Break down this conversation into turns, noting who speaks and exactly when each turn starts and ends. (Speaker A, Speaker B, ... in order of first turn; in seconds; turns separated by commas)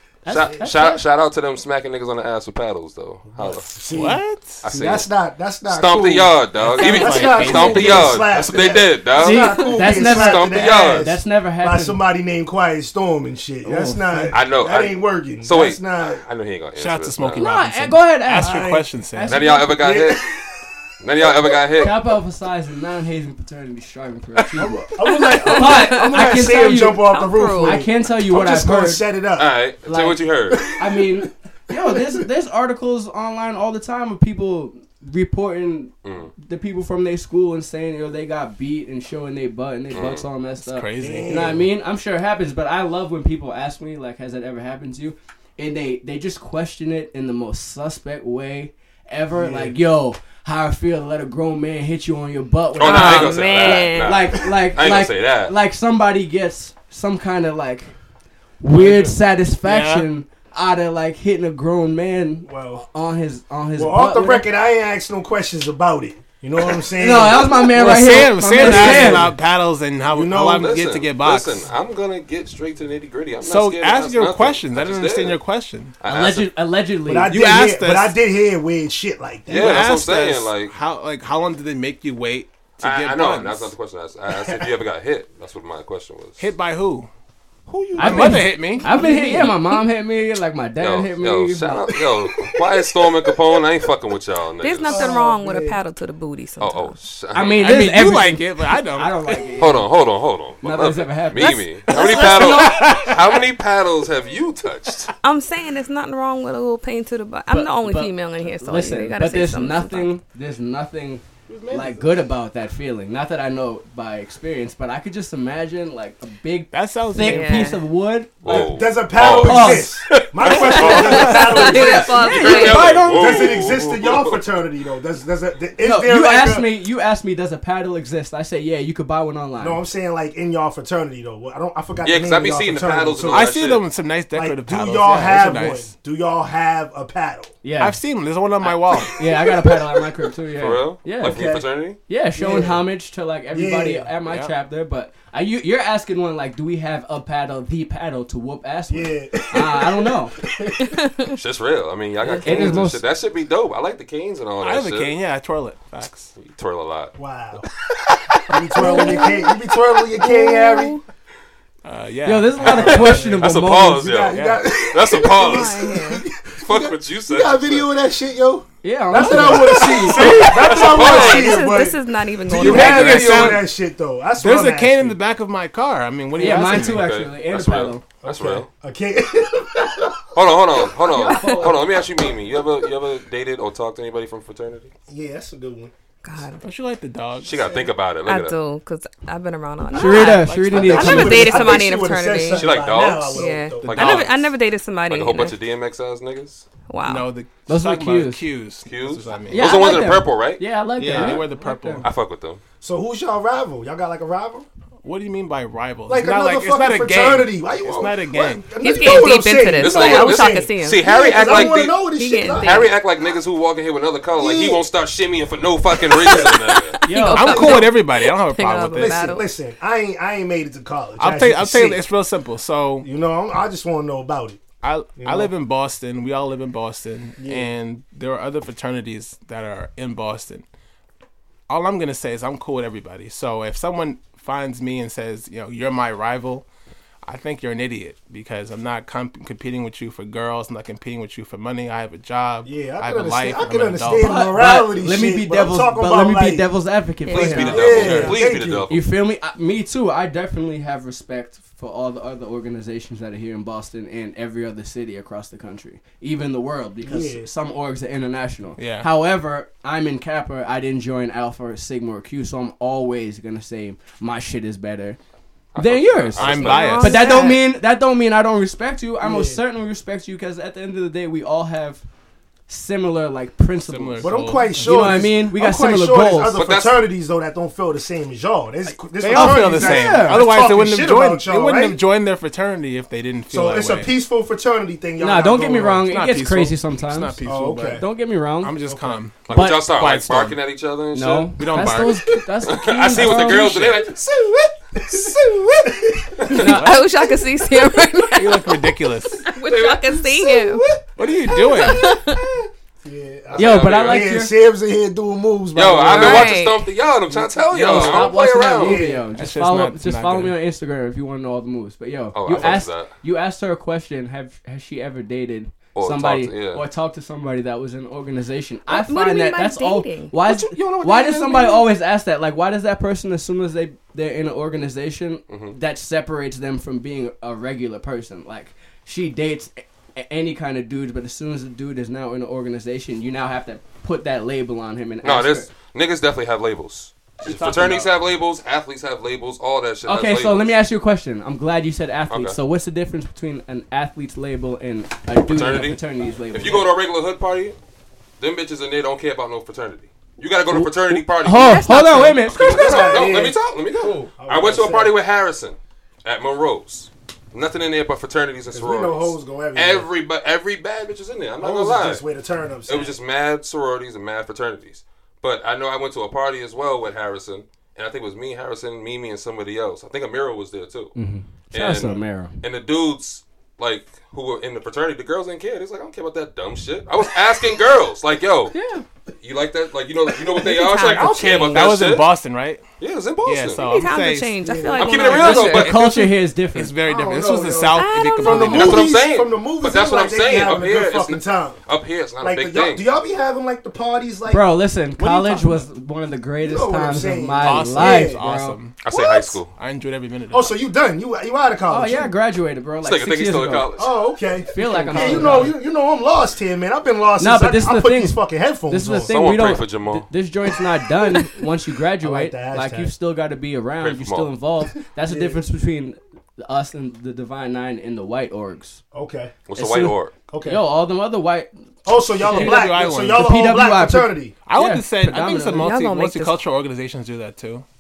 Speaker A: 0.2-1.0, Speaker B: 0.3-3.7, Speaker C: 3.3-16.2, Speaker D: 3.9-4.7, Speaker B: 4.6-5.1, Speaker B: 5.7-11.1, Speaker D: 6.6-8.2, Speaker E: 6.9-8.2, Speaker A: 9.2-12.0, Speaker A: 13.6-14.4, Speaker B: 14.3-17.5, Speaker D: 16.8-19.4, Speaker A: 17.4-19.8, Speaker C: 18.4-18.9, Speaker B: 19.3-20.3, Speaker C: 19.7-21.6, Speaker B: 21.0-22.0, Speaker A: 21.8-27.1, Speaker C: 24.6-29.6, Speaker E: 25.0-27.8, Speaker A: 27.6-29.0, Speaker B: 29.4-30.6, Speaker A: 29.9-57.9, Speaker C: 30.5-31.3, Speaker B: 36.0-36.3, Speaker B: 39.9-40.2, Speaker D: 40.6-41.6, Speaker C: 41.0-41.7, Speaker C: 49.3-49.8, Speaker B: 52.8-55.5, Speaker E: 52.8-54.4, Speaker C: 52.8-53.8, Speaker A: 58.6-64.5, Speaker D: 58.7-60.1, Speaker C: 62.5-62.9, Speaker C: 63.8-67.7, Speaker A: 67.0-69.3, Speaker D: 67.7-71.7, Speaker C: 68.6-69.3, Speaker C: 70.1-70.8, Speaker B: 70.6-75.4, Speaker D: 73.4-75.9, Speaker B: 76.0-76.5, Speaker A: 76.0-77.4, Speaker C: 77.1-79.9, Speaker D: 77.3-78.2, Speaker B: 79.5-80.7, Speaker D: 79.5-83.8, Speaker B: 82.8-86.4, Speaker C: 84.3-84.7, Speaker D: 86.4-87.1, Speaker D: 87.7-88.9, Speaker A: 88.0-92.0, Speaker C: 88.0-89.5, Speaker E: 88.0-89.7, Speaker B: 90.8-95.2, Speaker E: 94.6-97.0, Speaker C: 94.8-95.8, Speaker B: 96.6-97.8, Speaker A: 97.3-99.9, Speaker D: 97.5-99.1, Speaker B: 99.6-105.1, Speaker A: 100.6-103.0, Speaker E: 101.4-102.9, Speaker D: 102.2-103.2, Speaker E: 105.2-110.1, Speaker A: 107.5-120.0, Speaker D: 111.5-112.2, Speaker D: 116.7-117.8, Speaker E: 117.2-117.9, Speaker B: 118.4-124.5, Speaker C: 118.4-126.7, Speaker E: 120.5-123.0, Speaker D: 120.7-121.5, Speaker A: 120.8-123.7, Speaker A: 125.8-129.8, Speaker C: 129.6-133.6, Speaker B: 132.0-133.8, Speaker D: 133.3-135.9, Speaker C: 134.3-137.5, Speaker A: 137.6-138.0, Speaker D: 137.8-139.2, Speaker A: 138.6-141.5, Speaker C: 139.4-139.8, Speaker B: 140.6-142.0, Speaker C: 141.2-141.7, Speaker A: 142.1-150.4, Speaker C: 142.3-142.9, Speaker C: 143.5-144.1, Speaker D: 144.3-144.5, Speaker C: 148.9-151.0, Speaker E: 150.9-151.4, Speaker B: 151.3-155.1, Speaker A: 152.2-153.0, Speaker C: 152.5-152.8, Speaker D: 154.6-156.3, Speaker B: 156.4-157.1, Speaker C: 157.2-157.7, Speaker C: 158.5-161.0, Speaker E: 158.8-161.0, Speaker D: 161.8-163.4, Speaker A: 162.2-164.1, Speaker B: 162.6-166.0, Speaker C: 162.7-175.2, Speaker E: 165.2-166.2, Speaker B: 166.6-167.9, Speaker A: 168.8-170.6, Speaker D: 169.2-169.5, Speaker B: 169.7-171.6, Speaker E: 170.6-173.6, Speaker D: 172.5-173.7, Speaker B: 172.6-173.5, Speaker D: 174.4-177.1, Speaker A: 176.3-178.0, Speaker B: 176.5-178.7, Speaker C: 178.2-180.2, Speaker B: 180.2-184.9, Speaker C: 180.9-182.2, Speaker E: 181.2-181.7, Speaker C: 185.1-185.9, Speaker E: 186.2-186.6, Speaker D: 186.6-187.6, Speaker B: 187.4-188.6, Speaker E: 187.6-195.6, Speaker A: 189.9-191.8, Speaker D: 190.0-191.5, Speaker C: 190.7-194.1, Speaker B: 192.5-194.5, Speaker D: 193.8-194.3, Speaker B: 195.1-196.7, Speaker E: 196.9-197.3, Speaker D: 197.1-200.1, Speaker A: 197.7-198.4, Speaker B: 198.9-201.4, Speaker A: 199.5-202.1, Speaker D: 201.0-202.1, Speaker B: 202.0-202.6, Speaker C: 202.8-204.7, Speaker D: 205.0-208.7, Speaker C: 206.1-212.9, Speaker E: 208.8-213.0, Speaker B: 209.0-217.0, Speaker C: 214.3-214.8, Speaker C: 216.1-216.6, Speaker E: 216.2-219.5, Speaker A: 217.1-217.9, Speaker D: 217.2-219.3, Speaker C: 218.9-222.0, Speaker D: 221.2-223.1, Speaker C: 223.0-224.6, Speaker D: 224.8-230.7, Speaker C: 225.2-225.5, Speaker C: 227.4-227.7, Speaker D: 231.7-236.7, Speaker D: 237.2-244.5, Speaker C: 242.6-246.7, Speaker A: 244.2-248.4, Speaker E: 247.3-248.4, Speaker B: 247.3-249.1, Speaker C: 247.5-248.9, Speaker D: 247.9-248.3, Speaker A: 248.9-265.2, Speaker C: 257.0-257.5, Speaker D: 258.8-259.1, Speaker B: 265.7-267.0, Speaker A: 265.8-272.1, Speaker D: 266.4-267.5, Speaker E: 266.6-267.6, Speaker C: 269.2-269.6, Speaker A: 272.7-276.6, Speaker D: 273.9-275.0, Speaker C: 274.2-282.0, Speaker B: 276.6-277.1, Speaker D: 279.2-284.2, Speaker A: 279.3-280.5, Speaker C: 283.5-286.1, Speaker A: 285.2-287.4, Speaker D: 286.0-288.1, Speaker C: 287.4-288.0, Speaker A: 287.9-288.8, Speaker D: 288.6-290.6, Speaker C: 288.8-289.2, Speaker B: 289.5-291.6, Speaker A: 289.5-289.8, Speaker A: 291.1-293.7, Speaker D: 291.6-292.3, Speaker B: 292.6-296.6, Speaker D: 293.2-294.0, Speaker C: 295.0-296.5, Speaker E: 296.5-298.9, Speaker A: 296.5-297.0, Speaker D: 296.6-297.1, Speaker D: 298.3-299.5, Speaker E: 299.5-300.8, Speaker B: 299.6-301.0, Speaker D: 301.2-302.2, Speaker E: 301.4-302.4, Speaker C: 302.0-302.4, Speaker C: 303.0-306.6, Speaker B: 303.5-304.3, Speaker A: 303.6-304.6, Speaker B: 305.7-309.1, Speaker E: 306.1-306.9, Speaker A: 307.7-335.7, Speaker C: 308.8-309.3, Speaker D: 309.3-310.6, Speaker B: 312.4-313.1, Speaker B: 315.9-316.8, Speaker E: 318.9-320.3, Speaker B: 320.4-321.8, Speaker B: 325.5-325.8, Speaker B: 335.2-340.8, Speaker A: 337.4-338.1, Speaker A: 340.1-346.9, Speaker B: 342.3-342.6, Speaker B: 345.5-347.8, Speaker B: 348.4-362.2, Speaker A: 350.7-352.7, Speaker E: 351.6-353.3, Speaker C: 352.5-355.1, Speaker C: 358.7-360.1, Speaker C: 361.6-363.1, Speaker B: 362.9-371.1, Speaker A: 371.1-372.6, Speaker B: 371.7-378.7, Speaker A: 378.7-379.1, Speaker B: 379.4-382.3, Speaker E: 380.6-381.9, Speaker C: 381.1-381.7, Speaker D: 381.7-382.8, Speaker B: 383.0-383.8, Speaker D: 383.4-384.6, Speaker E: 383.8-386.0, Speaker C: 384.6-385.5, Speaker B: 385.0-386.0, Speaker D: 385.2-389.1, Speaker A: 385.4-387.0, Speaker C: 387.0-391.8, Speaker E: 387.9-389.1, Speaker B: 388.7-393.1, Speaker C: 392.4-394.7, Speaker A: 394.5-398.8, Speaker D: 395.2-395.6, Speaker C: 395.2-395.6, Speaker C: 396.6-398.4, Speaker D: 397.6-399.0, Speaker B: 399.0-399.7, Speaker E: 399.1-399.5, Speaker D: 399.7-400.8, Speaker C: 400.5-402.3, Speaker A: 401.9-404.0, Speaker B: 403.0-404.1, Speaker C: 404.0-409.3, Speaker A: 404.6-405.8, Speaker D: 404.9-405.7, Speaker A: 407.4-419.0, Speaker B: 409.3-410.3, Speaker C: 412.2-413.1, Speaker B: 414.0-414.5, Speaker C: 415.2-415.6, Speaker C: 419.1-419.5, Speaker B: 419.7-420.3, Speaker A: 419.8-421.7, Speaker C: 420.5-420.9, Speaker C: 422.1-424.6, Speaker A: 422.3-425.9, Speaker D: 422.4-423.5, Speaker D: 424.7-427.9, Speaker E: 425.8-426.6